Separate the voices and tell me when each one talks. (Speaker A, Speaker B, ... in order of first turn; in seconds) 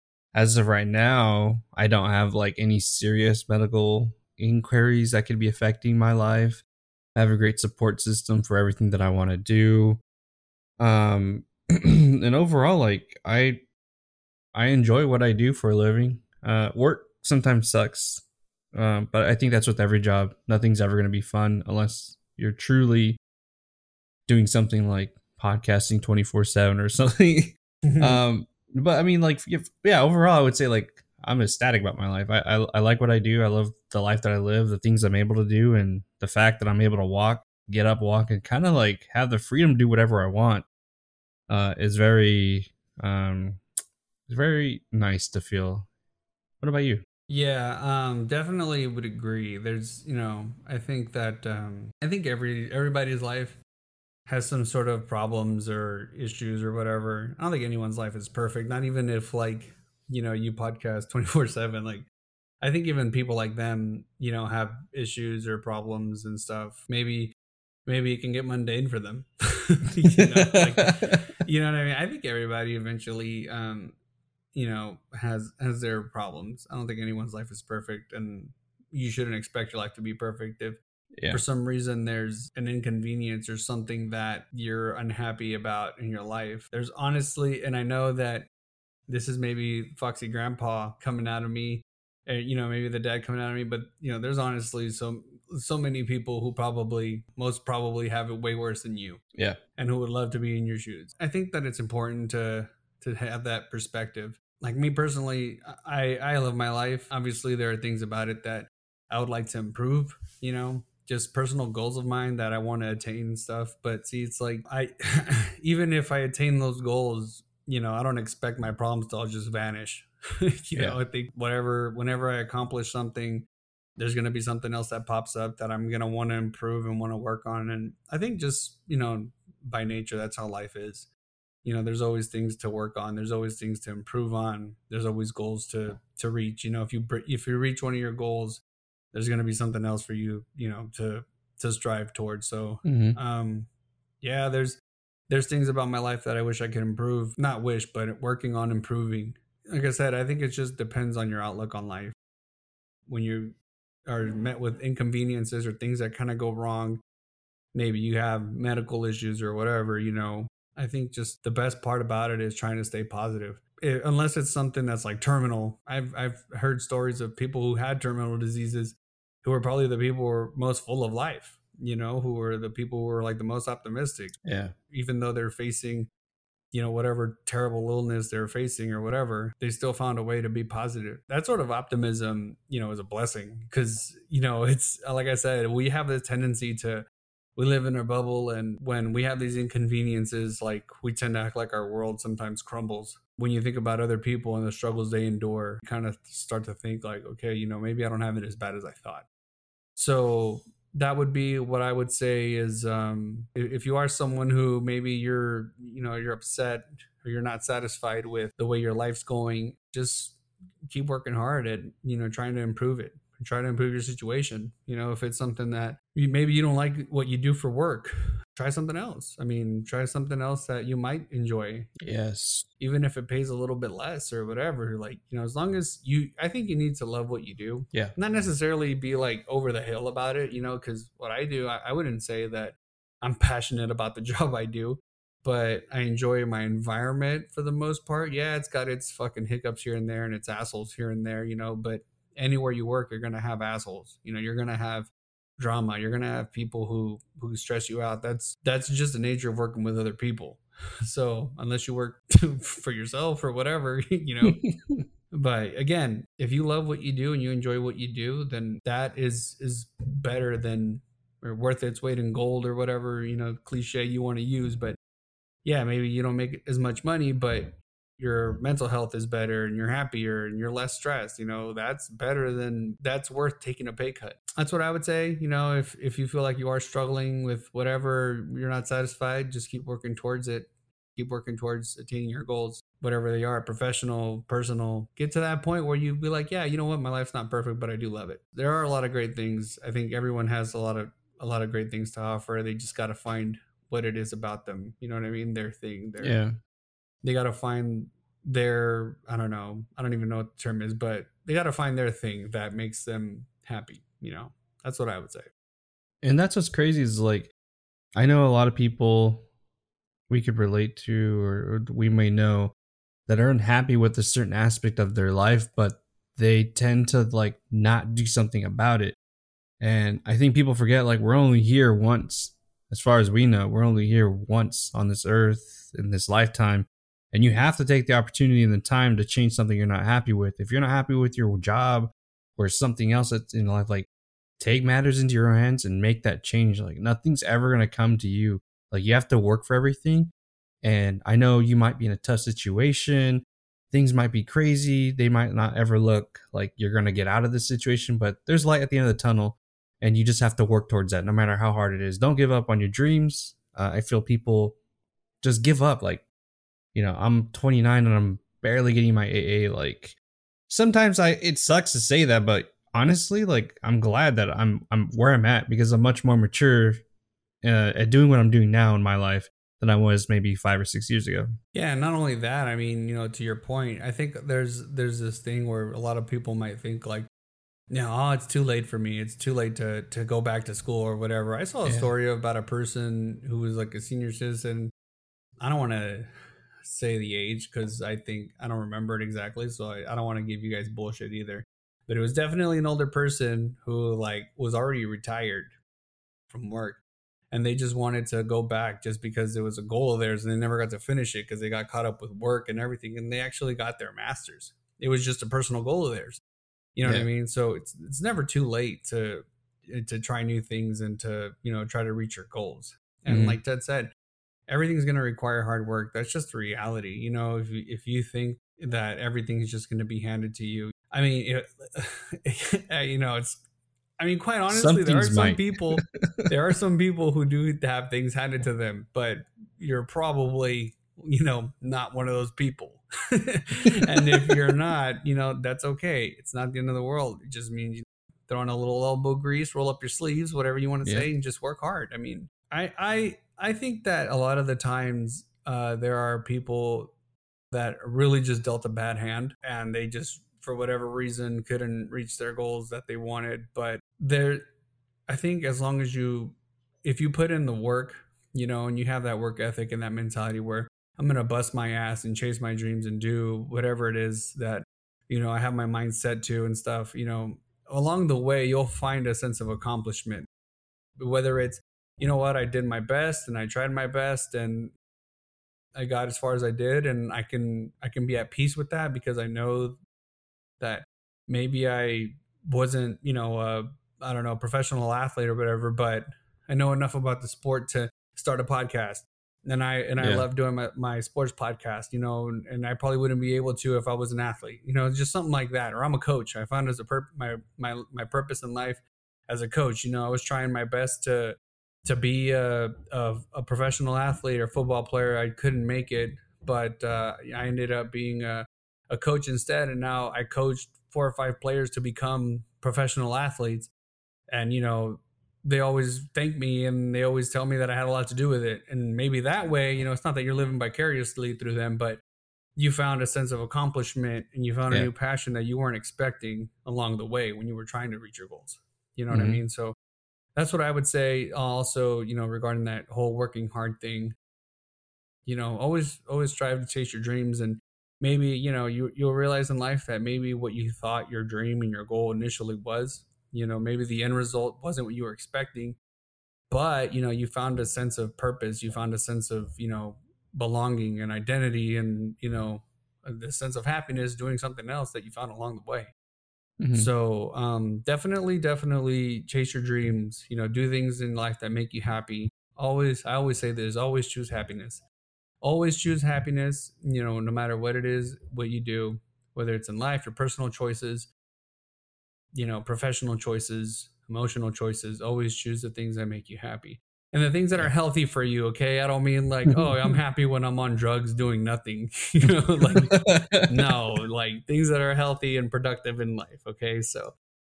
Speaker A: 0.3-6.6, 7.2-10.0, 10.8-13.6, 14.5-18.2, 18.7-23.2, 24.3-40.6, 41.5-43.6, 44.3-45.9, 46.6-47.0, 70.2-70.9, 81.2-81.4, 142.8-143.2, 174.4-174.7, 222.0-222.7, 254.4-255.0, 296.2-296.6, 306.2-307.5, 308.1-309.4, 310.3-312.7, 313.3-319.2, 319.8-334.1, 334.6-340.3, 340.8-354.8, 355.4-356.2, 356.9-360.1, 360.7-367.0, 367.6-371.5, 381.8-382.1, 413.3-413.6, 424.7-426.5, 441.0-441.3, 490.2-490.5, 529.3-529.6, 556.8-557.1, 579.7-580.1, 582.9-583.7
Speaker B: 27.9-28.2, 47.3-53.6, 54.3-62.1, 62.6-67.3, 67.8-73.9, 74.5-88.5, 89.1-99.2, 99.8-123.5, 124.0-131.1, 131.6-138.6, 139.1-143.7, 144.2-152.1, 153.1-153.6, 154.1-157.0, 157.7-176.1, 176.7-199.3, 199.9-221.9, 222.8-254.6, 255.3-265.0, 265.6-296.4, 297.2-305.5, 371.7-377.3, 377.9-384.9, 385.6-386.3, 386.8-395.7, 396.5-406.4, 406.9-414.1, 414.7-423.6, 424.2-447.1, 447.7-454.6, 455.3-470.4, 471.2-474.9, 475.9-480.0, 480.8-513.9, 514.5-522.2, 522.8-529.9, 530.5-534.3, 535.4-546.0, 546.7-556.1, 556.9-565.0, 565.6-571.3, 572.5-587.3